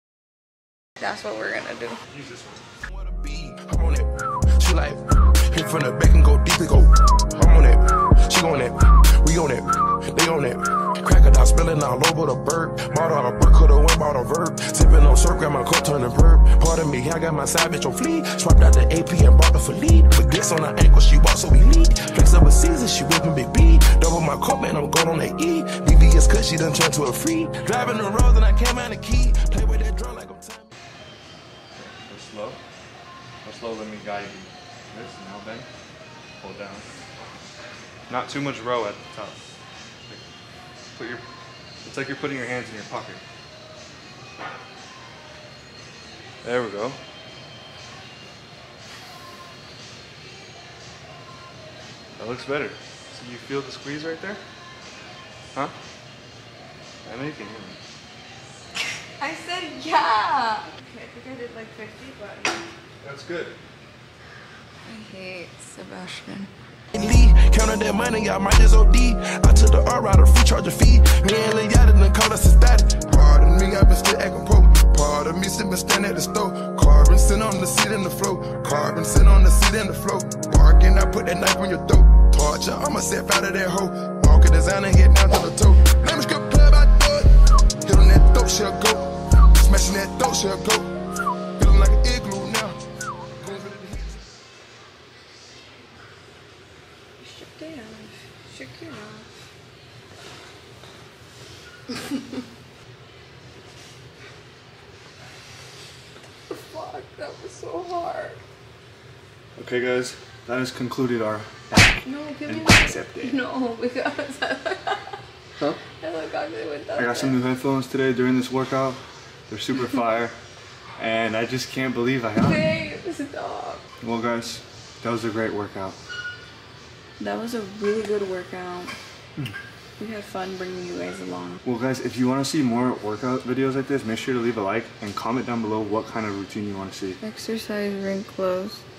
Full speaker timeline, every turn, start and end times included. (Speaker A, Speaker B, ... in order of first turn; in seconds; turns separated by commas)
Speaker A: 1.0-2.0, Speaker B: 2.1-2.6, Speaker C: 2.9-30.7, Speaker B: 31.8-32.6, Speaker B: 33.4-35.7, Speaker B: 36.4-36.9, Speaker B: 38.1-39.4, Speaker B: 41.0-41.2, Speaker B: 41.8-43.2, Speaker B: 46.4-47.0, Speaker B: 52.2-54.4, Speaker B: 57.0-57.8, Speaker A: 59.2-62.6, Speaker B: 63.0-63.6, Speaker A: 64.8-66.5, Speaker C: 67.0-87.3, Speaker C: 87.8-90.9, Speaker C: 91.6-92.8, Speaker C: 93.4-94.2, Speaker A: 97.2-99.3, Speaker A: 106.5-108.4, Speaker B: 109.6-113.4, Speaker A: 112.0-115.2, Speaker A: 116.0-117.4, Speaker B: 117.0-120.3, Speaker B: 121.0-122.6, Speaker A: 122.4-123.8, Speaker B: 124.0-126.0, Speaker A: 127.2-128.9, Speaker A: 130.0-131.6, Speaker B: 131.6-137.2, Speaker A: 137.2-138.8